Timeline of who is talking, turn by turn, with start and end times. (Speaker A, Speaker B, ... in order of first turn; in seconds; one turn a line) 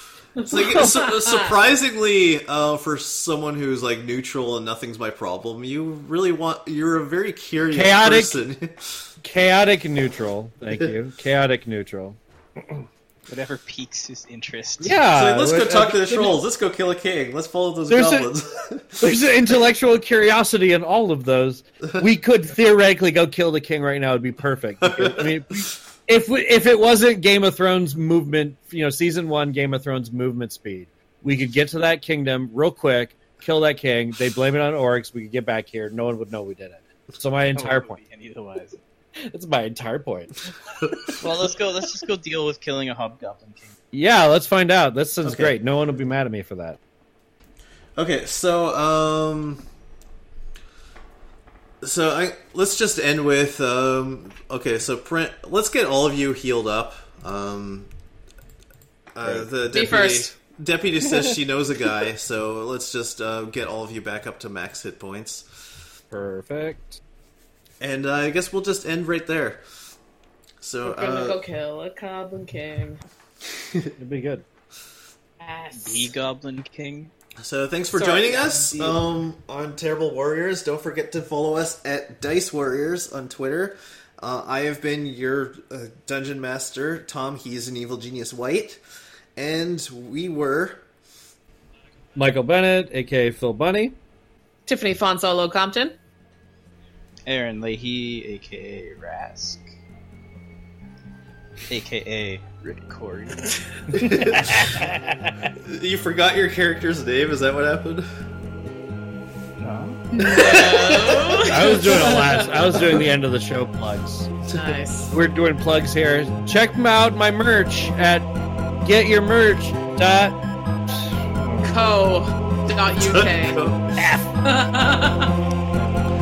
Speaker A: 0.4-1.5
Speaker B: 0.4-9.1
Speaker C: 7.7-8.4
Speaker C: 9.2-12.2
Speaker D: 13.3-15.0
Speaker C: 14.8-16.4
Speaker B: 15.1-19.0
Speaker C: 17.9-18.3
Speaker C: 19.0-38.0
Speaker B: 24.8-25.2
Speaker D: 37.5-38.8
Speaker C: 39.3-40.4
Speaker D: 41.2-43.8
Speaker C: 43.9-46.8
Speaker B: 45.2-45.5
Speaker B: 48.0-49.6
Speaker B: 51.8-57.9
Speaker B: 59.1-65.5
Speaker C: 59.2-59.5
Speaker A: 59.7-60.4
Speaker C: 66.1-67.0
Speaker B: 67.8-69.6
Speaker B: 70.6-71.4
Speaker A: 70.8-73.0
Speaker B: 73.6-73.9
Speaker C: 74.0-74.4
Speaker A: 75.4-76.1
Speaker D: 75.7-77.1
Speaker B: 77.4-88.8
Speaker A: 77.9-79.0
Speaker B: 89.3-90.8
Speaker C: 92.1-93.9
Speaker A: 94.7-95.9
Speaker D: 97.2-99.6
Speaker D: 101.7-105.0
Speaker B: 104.0-104.5
Speaker B: 105.6-108.1
Speaker D: 109.6-110.2
Speaker B: 110.2-111.5
Speaker A: 110.2-112.6
Speaker C: 111.5-114.4
Speaker A: 114.5-115.1
Speaker C: 115.1-118.3
Speaker C: 118.8-120.4
Speaker A: 121.6-125.3
Speaker B: 123.0-123.9